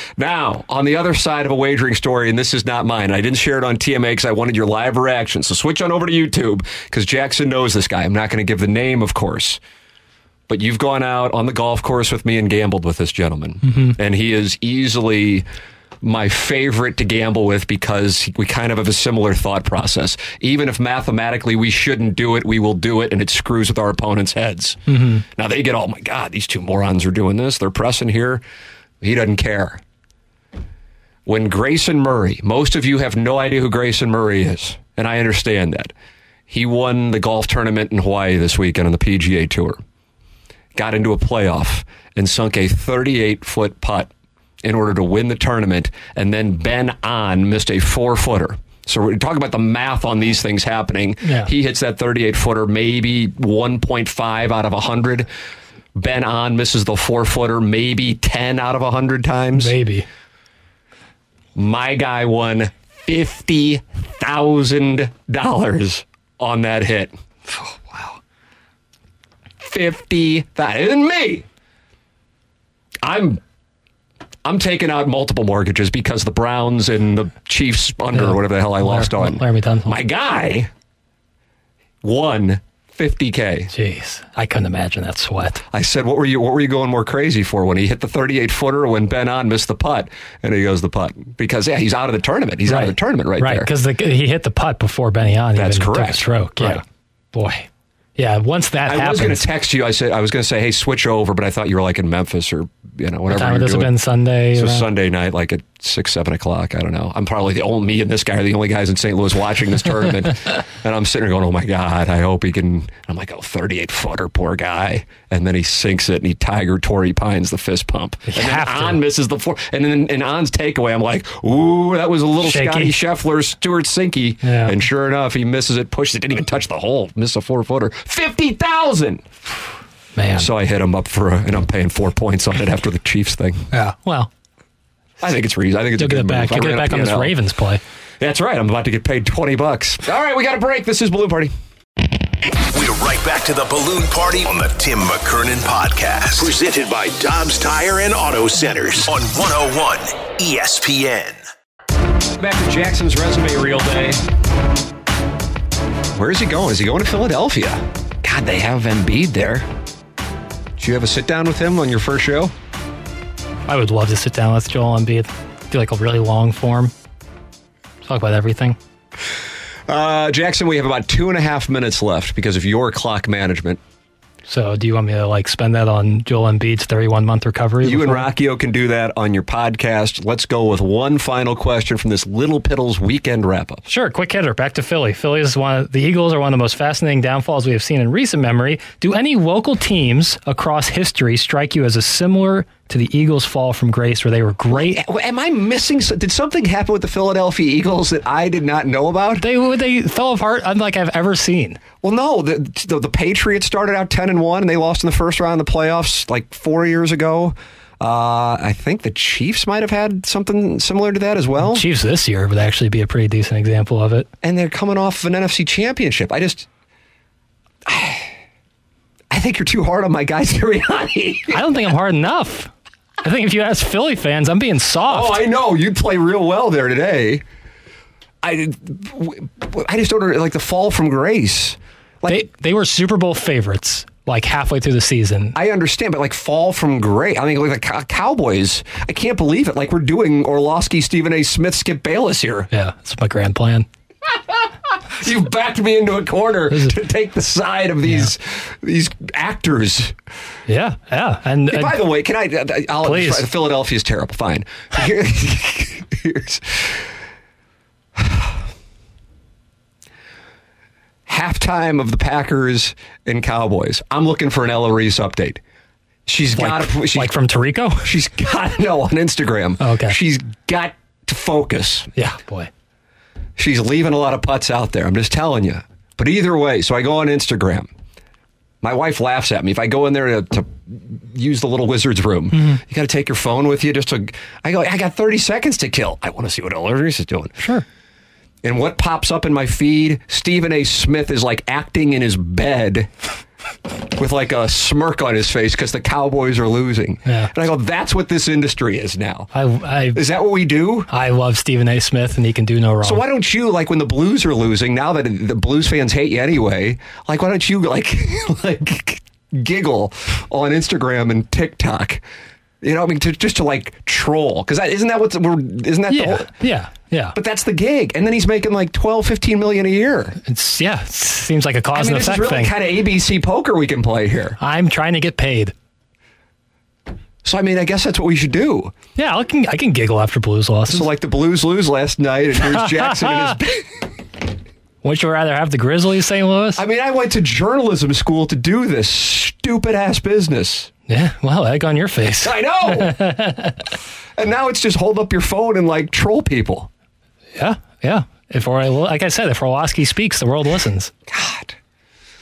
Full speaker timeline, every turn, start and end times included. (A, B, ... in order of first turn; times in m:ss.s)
0:00.2-0:09.6 A
0:10.5-0:15.5 A
0:13.7-0:14.0 B
0:16.0-0:28.4 A
0:24.9-0:25.2 B
0:29.0-0:29.8 A
0:31.3-0:35.9 A
0:36.5-0:39.8 A
0:40.7-0:44.1 A
0:44.6-0:55.3 A
0:51.2-0:51.5 B
0:56.0-0:59.7 A
0:59.6-1:00.1 B
1:01.6-1:07.1 A
1:07.5-1:08.2 B
1:09.6-1:11.4 A
1:13.0-1:13.4 A
1:14.4-1:20.7 A
1:18.1-1:20.0 B
1:22.0-1:23.7 A
1:23.7-1:25.6 B
1:25.7-1:33.7 A
1:32.7-1:36.8 B
1:35.6-1:36.8 A
1:37.3-1:39.4 B
1:38.9-1:44.0 A
1:43.3-1:44.9 B
1:44.5-2:09.3 A
1:58.3-1:59.0 B
2:02.4-2:03.0 B
2:04.4-2:04.8 B
2:10.2-2:10.5 B
2:10.4-2:13.7 A
2:13.7-2:14.3 B
2:15.2-2:17.4 A
2:16.0-2:17.8 B
2:18.2-2:21.5 A
2:22.7-2:31.4 C
2:32.3-2:34.2 A
2:36.1-2:39.7 A
2:40.8-2:42.5 A
2:43.7-2:46.9 B
2:48.0-2:48.8 B
2:49.9-2:53.8 A
2:54.4-2:58.3 B
2:57.8-3:03.8 A
3:03.9-3:15.0 B
3:14.7-3:19.4 A
3:19.4-3:21.8 B
3:22.0-3:31.9 A
3:31.6-3:34.3 B
3:34.4-3:36.7 A
3:37.9-3:38.4 A
3:39.3-3:41.6 A
3:41.5-3:42.7 B
3:43.2-3:45.4 B
3:45.1-3:47.4 A
3:48.4-3:52.4 A
3:52.3-3:55.6 B
3:55.6-4:02.7 A
4:02.7-4:03.9 B
4:04.3-4:10.2 A
4:06.7-4:07.0 B
4:10.7-4:12.0 B
4:11.7-4:17.1 A
4:13.0-4:13.5 B
4:18.2-4:18.6 A
4:21.3-4:25.6 A
4:26.3-4:27.4 A
4:26.5-4:28.1 B
4:28.0-4:32.1 A
4:29.8-4:30.2 B
4:32.2-4:32.7 B
4:33.6-4:37.9 A
4:38.8-4:47.6 A
4:42.5-4:42.8 B
4:47.6-4:47.8 B
4:48.6-4:53.1 A
4:54.1-4:59.5 A
4:57.3-4:57.5 B
4:59.5-5:00.2 B
5:00.1-5:01.1 A
5:01.1-5:03.2 B
5:03.0-5:12.2 A
5:12.8-5:16.5 A
5:16.1-5:17.4 B
5:17.4-5:20.4 A
5:20.4-5:22.7 B
5:21.9-5:24.6 A
5:24.6-5:25.7 B
5:27.4-5:28.9 A
5:29.2-5:31.1 B
5:30.9-5:34.0 A
5:32.6-5:33.6 B
5:35.0-5:36.8 B
5:36.8-5:40.9 A
5:41.1-5:43.8 B
5:42.4-5:43.2 A
5:44.4-5:46.9 A
5:47.6-5:51.1 B
5:51.3-5:51.8 A